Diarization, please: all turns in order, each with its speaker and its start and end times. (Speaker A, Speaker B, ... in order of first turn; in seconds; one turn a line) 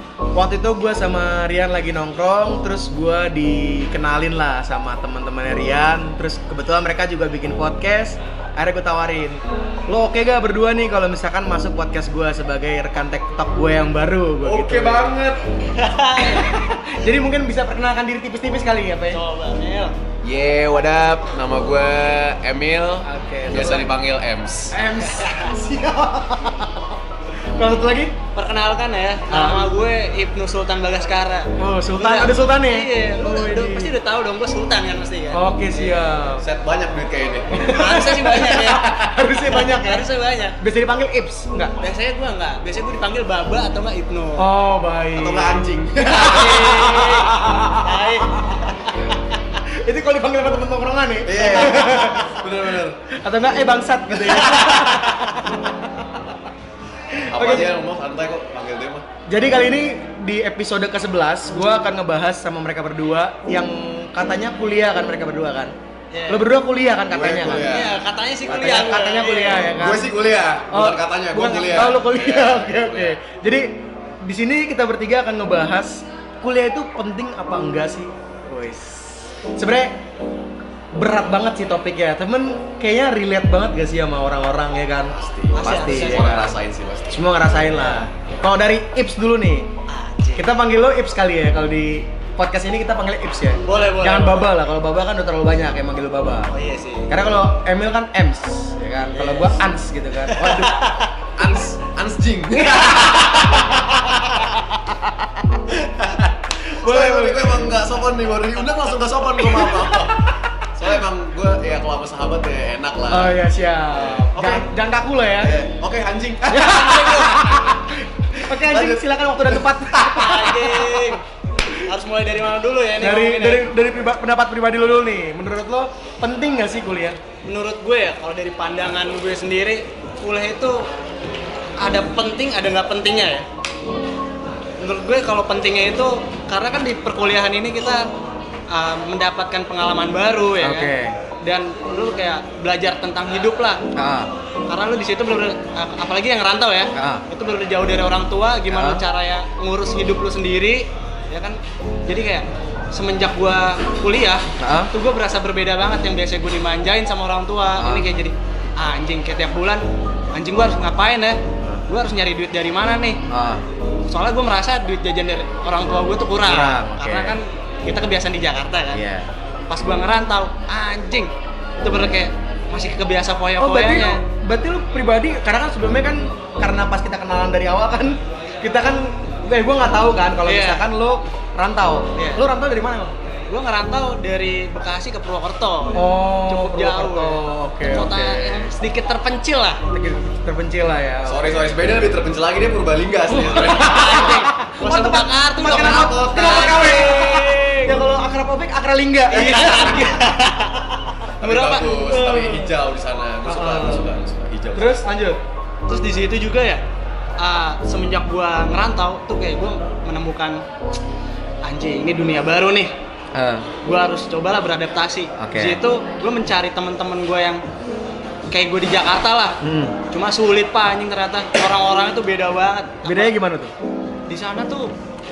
Speaker A: 0.3-15.2
Speaker B: 14.4-15.4
Speaker C: 15.6-16.8
Speaker A: 16.2-19.2
Speaker C: 19.1-19.9
Speaker B: 20.2-24.8
Speaker A: 23.0-23.9
Speaker A: 24.7-27.0
Speaker C: 25.1-25.4
Speaker A: 27.6-28.1
Speaker C: 28.3-35.9
Speaker A: 29.3-29.6
Speaker A: 31.6-33.9
Speaker A: 35.3-36.4
Speaker B: 36.4-37.6
Speaker A: 37.5-40.1
Speaker C: 37.5-40.6
Speaker A: 40.6-41.7
Speaker C: 41.8-44.5
Speaker A: 44.4-45.6
Speaker B: 45.1-47.0
Speaker C: 46.0-48.9
Speaker A: 46.4-48.0
Speaker A: 49.6-52.5
Speaker B: 51.2-53.0
Speaker A: 53.1-55.7
Speaker B: 54.1-55.1
Speaker A: 57.2-57.7
Speaker B: 57.3-59.0
Speaker A: 59.3-65.7
Speaker C: 66.1-66.5
Speaker A: 66.3-67.7
Speaker B: 67.1-68.0
Speaker C: 67.6-69.7
Speaker A: 68.5-70.1
Speaker B: 69.8-73.2
Speaker A: 70.7-79.9
Speaker A: 81.0-86.5
Speaker B: 85.1-87.2
Speaker C: 85.5-86.3
Speaker A: 87.1-89.7
Speaker C: 89.9-90.5
Speaker A: 90.3-96.5
Speaker C: 93.6-94.5
Speaker C: 96.5-97.1
Speaker A: 97.1-101.0
Speaker C: 99.2-99.5
Speaker C: 100.3-101.1
Speaker B: 101.4-103.8
Speaker A: 102.6-103.6
Speaker B: 105.8-113.3
Speaker A: 106.6-107.7
Speaker A: 109.4-110.1
Speaker A: 113.1-115.6
Speaker B: 114.3-114.7
Speaker B: 115.4-117.5
Speaker A: 116.5-121.1
Speaker C: 116.6-117.3
Speaker B: 118.3-120.1
Speaker C: 120.0-121.2
Speaker C: 121.8-123.7
Speaker A: 123.0-127.2
Speaker C: 127.4-130.9
Speaker C: 131.8-133.4
Speaker C: 134.8-138.0
Speaker C: 138.7-140.9
Speaker A: 140.6-141.2
Speaker C: 141.4-143.8
Speaker A: 143.9-144.3
Speaker C: 144.7-163.2
Speaker A: 146.9-147.2
Speaker A: 148.7-149.0
Speaker A: 154.6-154.9
Speaker A: 157.8-158.1
Speaker A: 163.3-163.6
Speaker C: 164.1-169.0
Speaker A: 166.4-167.4
Speaker A: 168.9-169.3
Speaker C: 169.7-174.2
Speaker A: 173.6-183.1
Speaker C: 180.4-180.8
Speaker C: 182.2-182.4
Speaker C: 183.5-189.8
Speaker A: 185.9-188.7
Speaker A: 189.9-192.0
Speaker B: 191.2-194.3
Speaker C: 193.5-198.0
Speaker A: 193.5-200.1
Speaker B: 195.6-197.2
Speaker C: 199.3-202.2
Speaker B: 199.3-200.1
Speaker B: 201.4-205.0
Speaker A: 202.1-202.7
Speaker A: 203.4-204.1
Speaker A: 204.7-205.4
Speaker C: 205.9-206.8
Speaker C: 207.4-210.6
Speaker C: 211.6-212.9
Speaker A: 213.3-213.7
Speaker C: 213.8-217.6
Speaker A: 215.4-215.8
Speaker C: 218.5-223.3
Speaker A: 219.6-220.0
Speaker A: 223.0-223.7
Speaker C: 224.3-224.9